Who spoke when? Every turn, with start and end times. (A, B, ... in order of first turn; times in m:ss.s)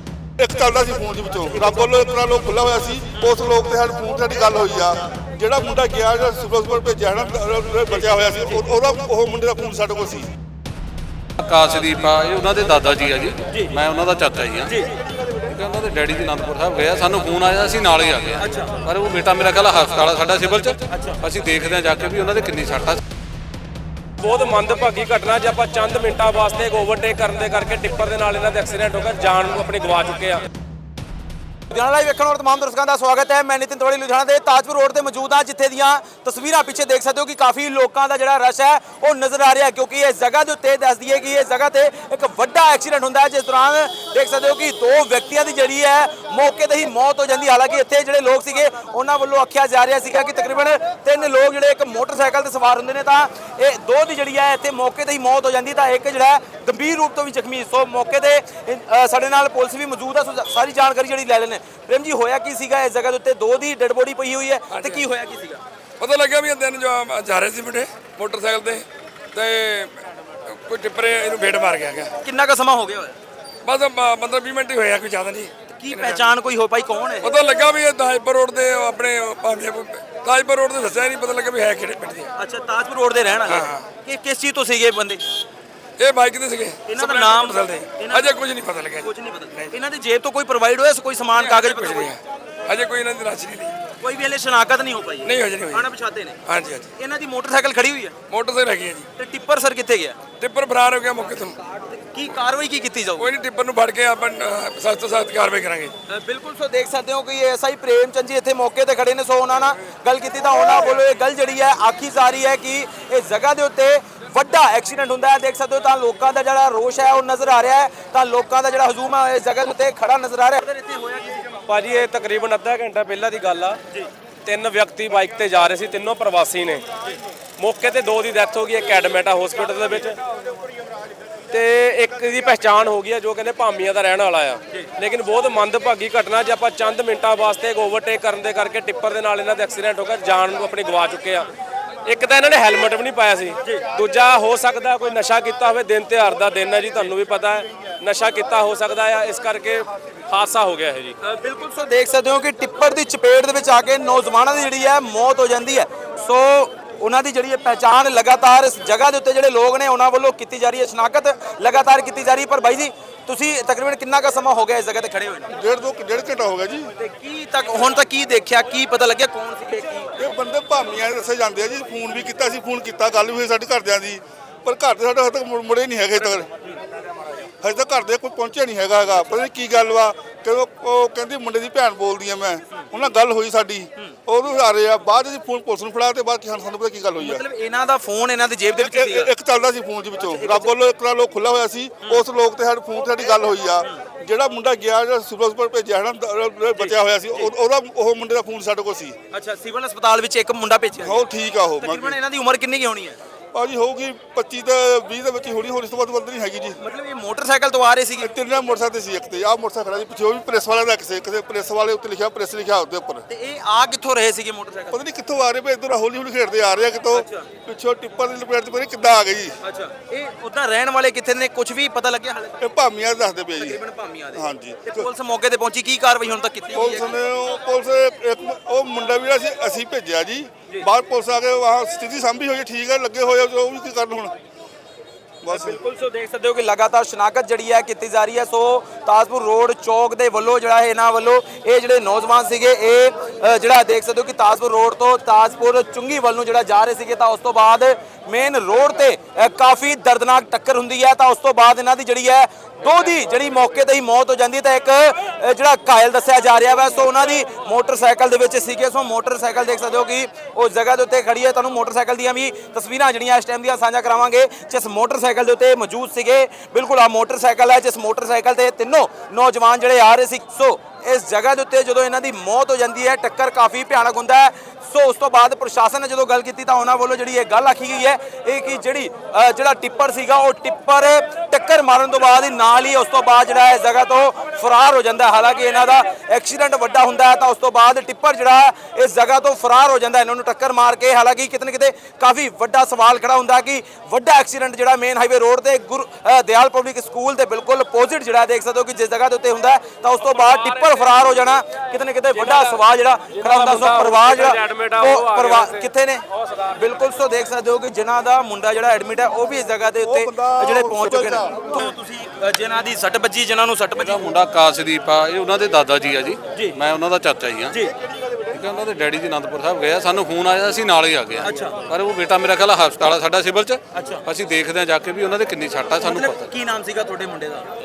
0:00.4-0:10.3 A
0:11.4-0:14.8 B
0:13.5-0:13.8 C
0:14.7-0:15.0 C
0:15.4-0:23.0 B
0:18.4-0:18.8 C
0:20.9-0:21.2 C
0:24.2-0:30.4 D
0:31.7-1:05.6 C
1:04.7-1:05.0 E
1:06.0-1:12.1 E
1:12.2-1:13.2 C
1:13.6-1:16.3 E
1:15.8-1:17.3 C
1:17.2-1:22.3 E
1:22.4-1:25.2 C
1:23.5-1:23.9 E
1:26.0-1:29.7 E
1:26.9-1:28.3 C
1:29.0-1:32.1 C
1:31.4-1:33.8 E
1:34.0-1:36.4 C
1:35.2-1:35.9 E
1:36.5-1:36.9 E
1:37.0-1:38.2 C
1:38.3-1:39.1 E
1:39.2-1:40.2 C
1:40.4-1:41.6 E
1:41.9-1:43.3 C
1:43.2-1:45.9 E
1:46.1-2:01.6 C
2:01.7-2:03.8 D
2:04.4-2:06.8 D
2:07.6-2:10.2 D
2:11.5-2:21.5 D
2:22.0-2:31.2 D
2:31.2-2:45.5 C
2:45.5-2:46.9 A
2:47.0-2:50.1 C
2:50.2-2:56.5 A
2:57.6-3:07.4 A
3:07.2-3:09.3 C
3:08.8-3:19.2 A
3:10.2-3:10.7 C
3:16.8-3:17.5 C
3:19.3-3:21.2 C
3:21.0-3:22.2 A
3:21.8-3:23.2 C
3:23.5-3:26.8 A
3:26.8-3:28.3 C
3:28.2-3:33.2 A
3:33.3-3:35.0 C
3:34.9-3:39.6 A
3:37.1-3:37.5 C
3:39.6-3:42.6 C
3:42.6-3:43.8 A
3:43.6-3:47.2 C
3:44.3-3:45.1 A
3:46.8-3:54.3 A
3:55.4-3:55.8 A
3:55.5-5:06.2 C
5:00.3-5:01.3 D
5:02.4-5:02.8 D
5:03.4-5:06.8 D
5:06.8-5:14.3 C
5:10.0-5:11.7 A
5:14.0-5:17.8 B
5:18.5-5:26.5 B
5:21.4-5:21.8 C
5:23.9-5:24.2 C
5:26.0-5:27.7 C